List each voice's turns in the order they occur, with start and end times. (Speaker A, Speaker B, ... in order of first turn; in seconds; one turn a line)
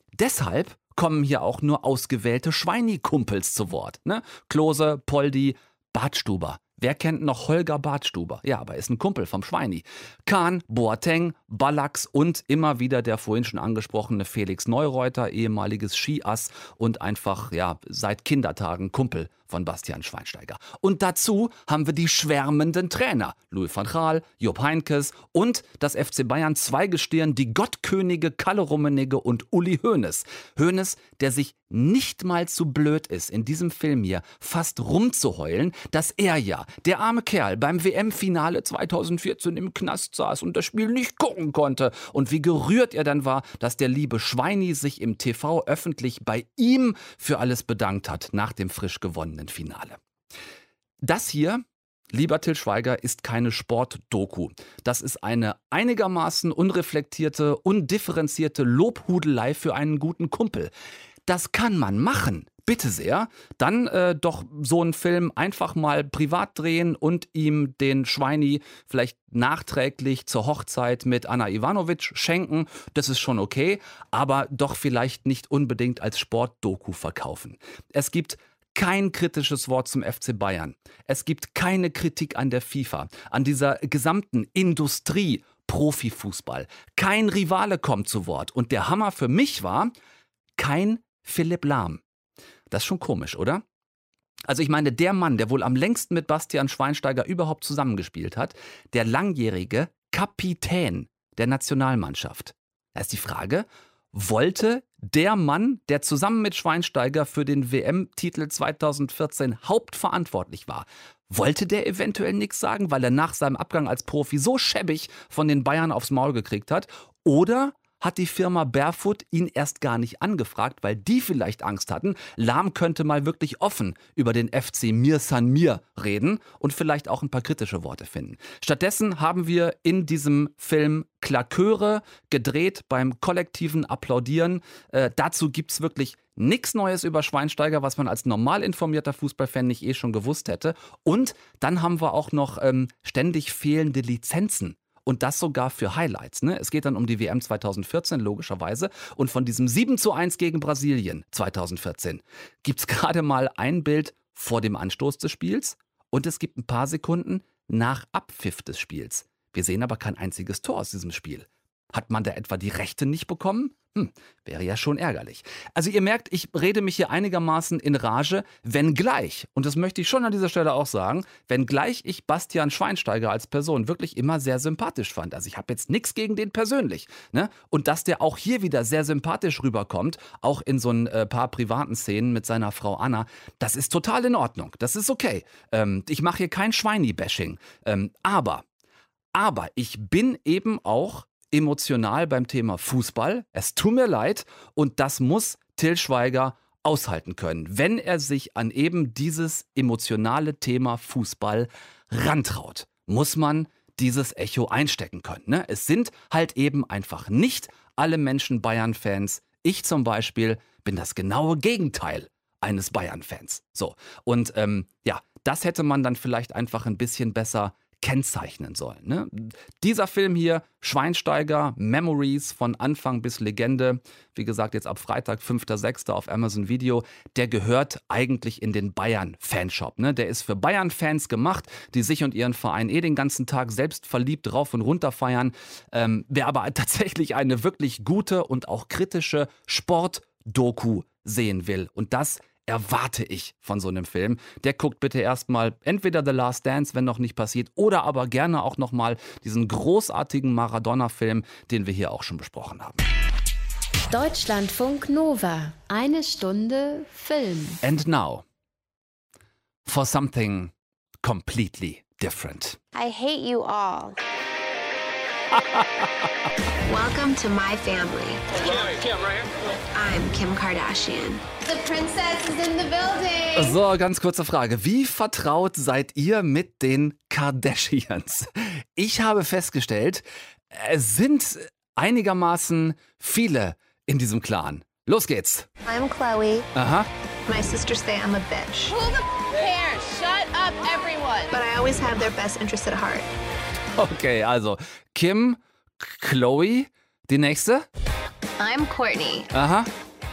Speaker A: 0.1-50.0
Speaker A: 51.0-60.7
Speaker A: 61.3-89.9
Speaker A: 90.6-92.0
Speaker A: 92.7-93.6
Speaker A: 94.5-188.6
Speaker A: 189.3-253.0
Speaker B: 254.1-257.8
Speaker A: 257.8-258.4
Speaker A: 259.9-262.8
Speaker C: 262.9-264.2
Speaker A: 265.5-266.1
Speaker C: 266.9-269.0
Speaker C: 269.9-273.8
Speaker A: 273.5-285.7
Speaker C: 285.8-286.7
Speaker A: 286.7-287.1
Speaker C: 287.5-288.9
Speaker D: 288.9-291.5
Speaker C: 291.5-293.3
Speaker A: 293.9-297.9
Speaker C: 298.6-299.5
Speaker A: 299.5-299.9